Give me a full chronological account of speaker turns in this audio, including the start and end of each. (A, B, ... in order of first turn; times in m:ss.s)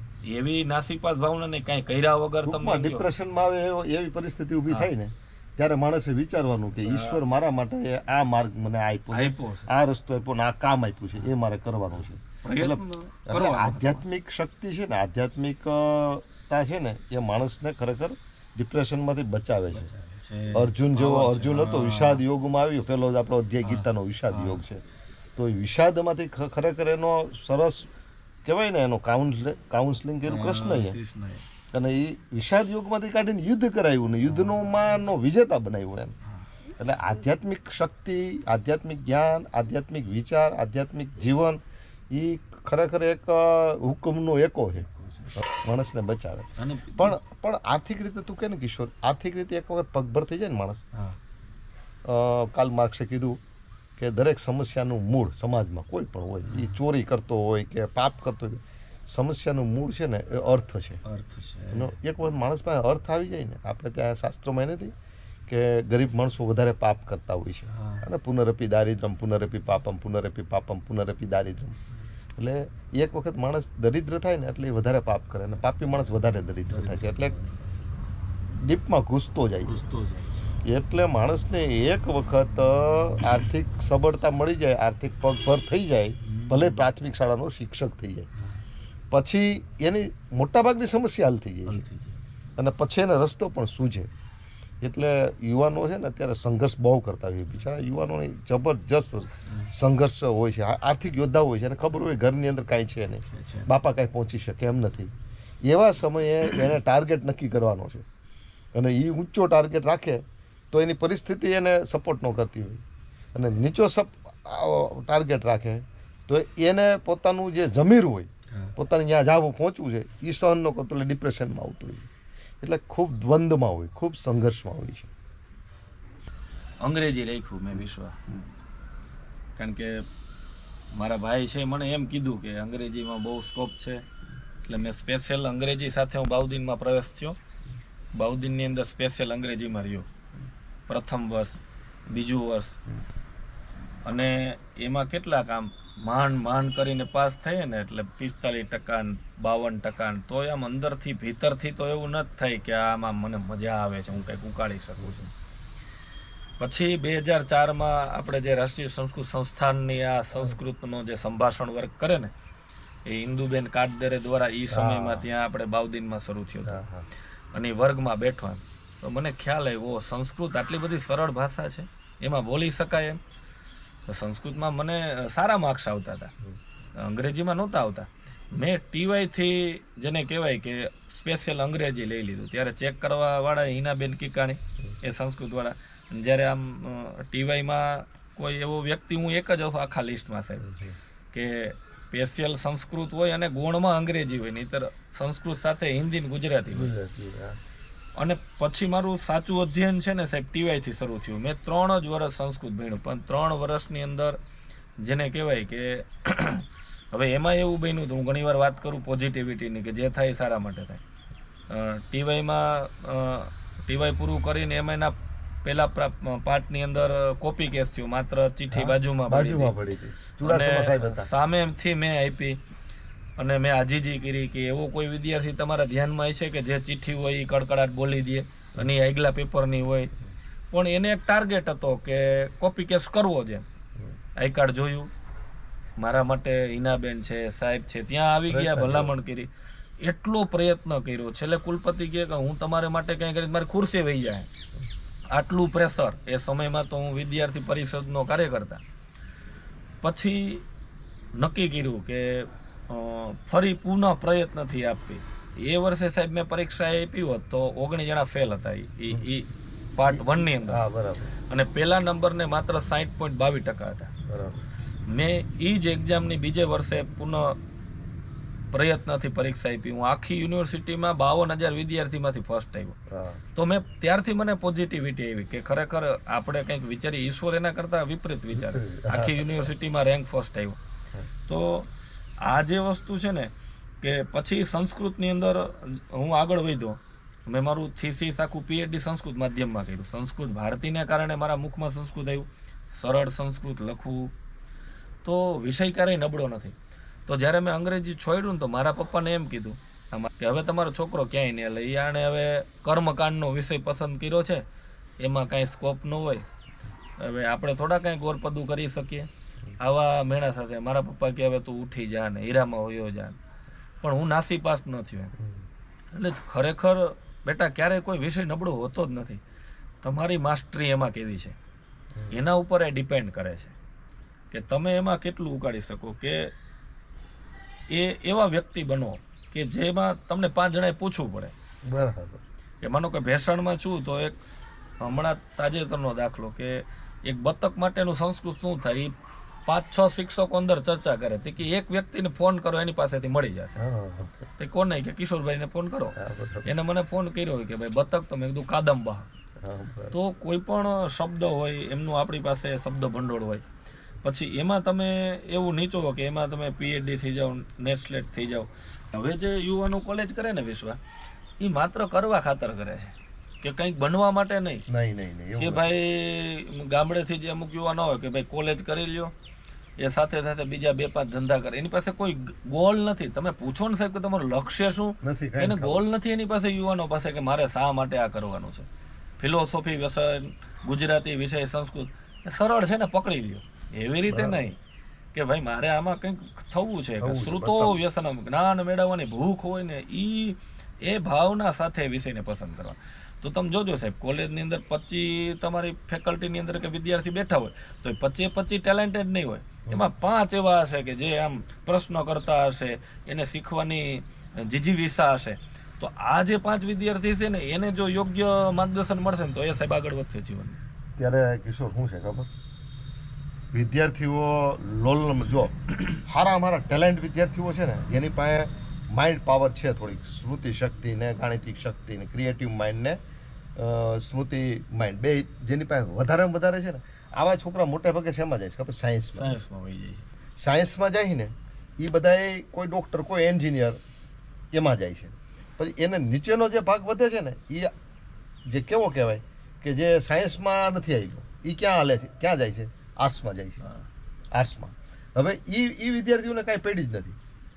0:00.2-0:03.1 A
0:02.4-0:19.9 B
0:06.8-0:07.2 A
0:09.1-0:09.7 A
0:12.4-0:14.0 A
0:19.7-0:22.2 A
0:20.5-0:24.8 B
0:23.6-0:24.6 A
0:25.4-0:27.9 B
0:28.4-0:31.0 B
0:30.2-0:31.4 A
0:31.7-0:36.2 B
0:34.3-0:34.6 A
0:36.2-0:36.5 A
0:36.8-0:50.8 B
0:44.8-0:45.4 A
0:46.6-0:47.2 A
0:52.0-0:53.4 B
0:54.0-1:01.0 B
0:56.4-0:56.8 A
1:01.0-1:02.0 A
1:01.7-1:04.9 B
1:05.5-1:11.8 B
1:07.7-1:08.1 A
1:12.4-1:17.4 B
1:16.7-1:18.4 A
1:18.5-1:19.8 B
1:19.6-1:20.5 A
1:20.6-1:28.3 B
1:26.2-1:26.9 A
1:29.1-1:31.8 B
1:31.7-1:32.2 A
1:32.6-1:34.1 B
1:34.8-1:45.1 B
1:43.3-1:43.7 A
1:45.6-1:48.0 B
1:48.7-1:52.8 B
1:53.3-2:02.1 B
2:02.6-2:05.1 B
2:06.8-2:08.2 A
2:09.6-2:10.0 A
2:10.9-2:14.0 A
2:14.6-2:17.4 A
2:18.1-2:20.1 A
2:20.9-2:22.8 A
2:24.0-2:35.3 A
2:36.6-2:42.3 A
2:43.0-2:46.8 A
2:44.7-2:45.2 B
2:46.6-2:47.0 B
2:47.5-2:53.2 A
2:54.1-2:56.3 A
2:56.9-3:10.6 A
3:10.6-3:11.0 B
3:11.3-3:16.9 A
3:16.7-3:17.6 B
3:18.2-3:24.4 A
3:25.0-3:31.0 A
3:31.7-3:39.7 A
3:38.7-3:41.3 B
3:40.4-3:42.6 A
3:43.4-3:50.1 A
3:50.7-3:53.6 A
3:54.4-3:55.1 A
3:56.0-3:59.5 A
3:58.5-3:59.2 B
4:00.0-4:04.5 A
4:05.3-4:08.8 A
4:10.0-4:10.6 A
4:11.3-4:20.9 A
4:20.1-4:21.3 B
4:21.5-4:24.1 A
4:24.3-4:24.6 B
4:25.1-4:27.6 A
4:28.7-4:33.0 A
4:33.1-4:33.4 B
4:33.5-4:40.8 A
4:38.5-4:39.7 B
4:41.5-4:41.9 A
4:42.4-4:43.5 A
4:44.0-4:54.3 A
4:55.2-4:56.7 A
4:57.3-5:04.6 A
5:05.2-5:06.4 A
5:07.2-5:13.4 A
5:14.0-5:15.3 A
5:15.4-5:15.6 B
5:16.1-5:19.4 A
5:20.0-5:21.6 A
5:22.3-5:23.8 A
5:24.5-5:26.5 A
5:27.9-5:31.5 A
5:31.8-5:32.4 B
5:32.8-5:34.4 A
5:35.0-5:39.1 A
5:39.6-5:43.8 A
5:43.8-5:44.5 B
5:44.6-5:49.3 A
5:46.2-5:46.7 B
5:49.6-5:50.1 B
5:50.1-5:53.6 A
5:54.2-6:01.0 A
6:01.6-6:04.8 A
6:04.9-6:05.8 B
6:05.6-6:09.3 A
6:10.0-6:18.9 A
6:15.2-6:16.0 B
6:19.4-6:24.7 A
6:24.3-6:24.6 B
6:25.3-6:50.8 A
6:27.2-6:28.0 B
6:39.8-6:40.1 B
6:51.2-6:52.5 B
6:53.7-7:03.2 B
7:03.8-7:09.6 B
7:09.4-7:10.2 A
7:10.6-7:14.0 B
7:14.7-7:17.9 B
7:18.7-7:23.8 B
7:24.5-7:27.4 B